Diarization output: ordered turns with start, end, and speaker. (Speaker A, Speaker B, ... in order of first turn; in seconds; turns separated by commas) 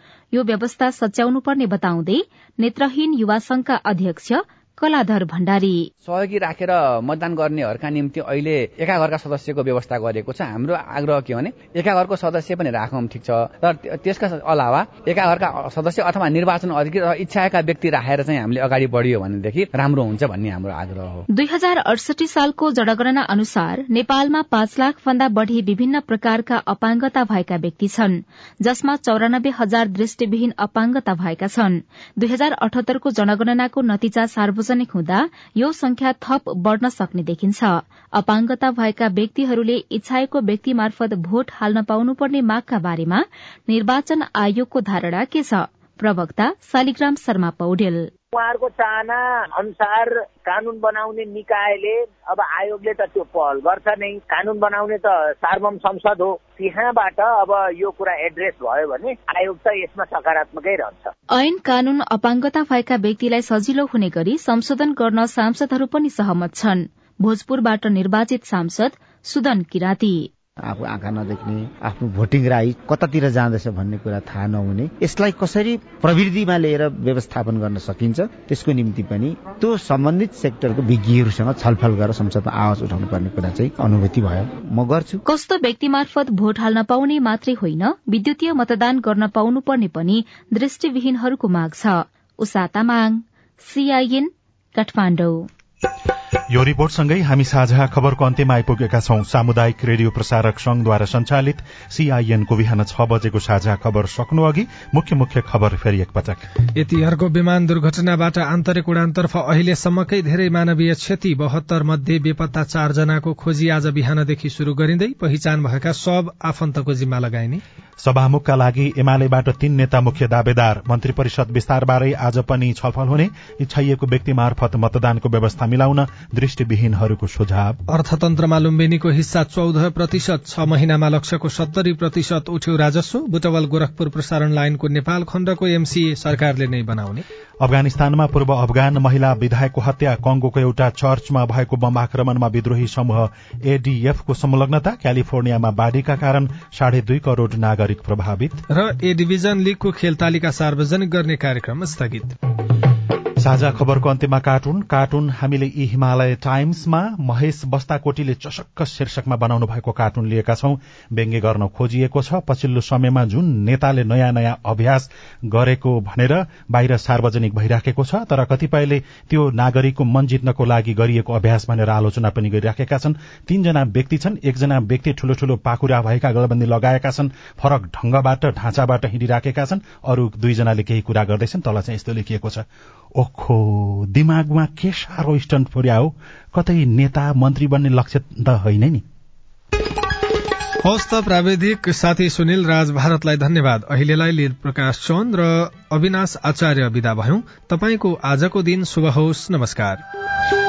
Speaker A: 0.3-5.8, Speaker B: 6.0-21.2, Speaker A: 21.3-48.1, Speaker C: 48.3-61.1, Speaker A: 61.3-70.3, Speaker D: 70.6-85.2, Speaker A: 85.3-95.5, Speaker E: 96.5-106.4, Speaker F: 106.8-117.6, Speaker E: 118.0-127.8, Speaker F: 127.9-137.2, Speaker E: 137.6-148.6, Speaker F: 148.7-152.3, Speaker E: 153.4-189.0, Speaker F: 190.8-200.0